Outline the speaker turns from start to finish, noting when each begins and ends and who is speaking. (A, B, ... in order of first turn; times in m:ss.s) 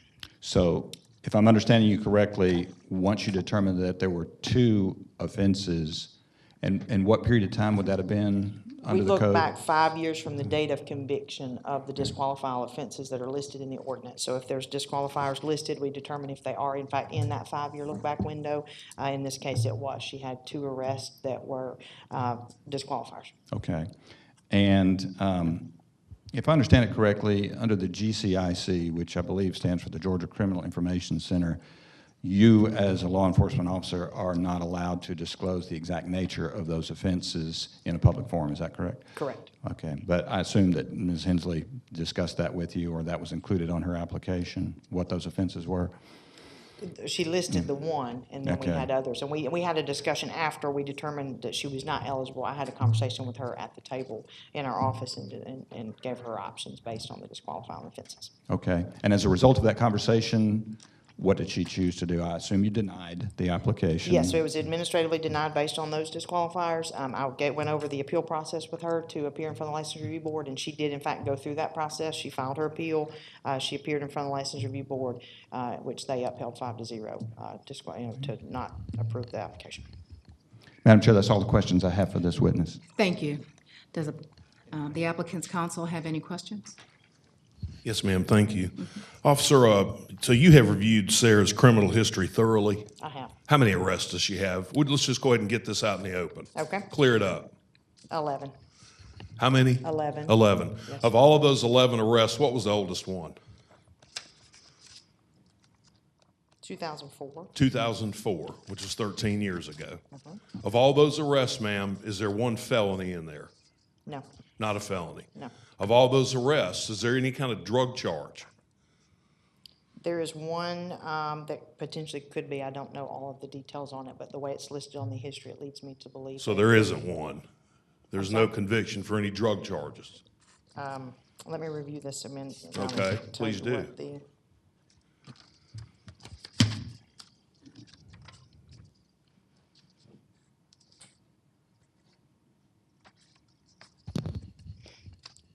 0:00.4-0:09.5 A
0:08.9-0:23.3 B
0:23.5-0:23.9 A
0:24.5-0:25.7 A
0:26.3-0:31.6 A
0:32.2-0:46.0 A
0:39.2-0:39.5 B
0:46.8-0:58.3 B
0:48.4-0:48.9 A
0:58.5-1:04.4 A
1:04.0-1:19.9 B
1:20.8-1:22.8 A
1:23.0-1:24.2 C
1:24.7-1:26.8 C
1:27.8-1:32.9 D
1:33.0-1:33.4 B
1:33.5-1:37.5 D
1:36.6-1:36.9 B
1:38.1-1:38.5 B
1:39.4-1:43.4 D
1:39.8-1:41.1 B
1:46.6-1:47.5 B
1:47.6-1:50.0 D
1:50.1-1:50.4 B
1:50.6-1:53.5 D
1:54.6-1:58.5 D
2:00.0-2:07.0 B
2:06.4-2:07.4 D
2:08.1-2:10.2 D
2:08.2-2:08.6 B
2:10.8-2:14.2 B
2:12.8-2:13.9 D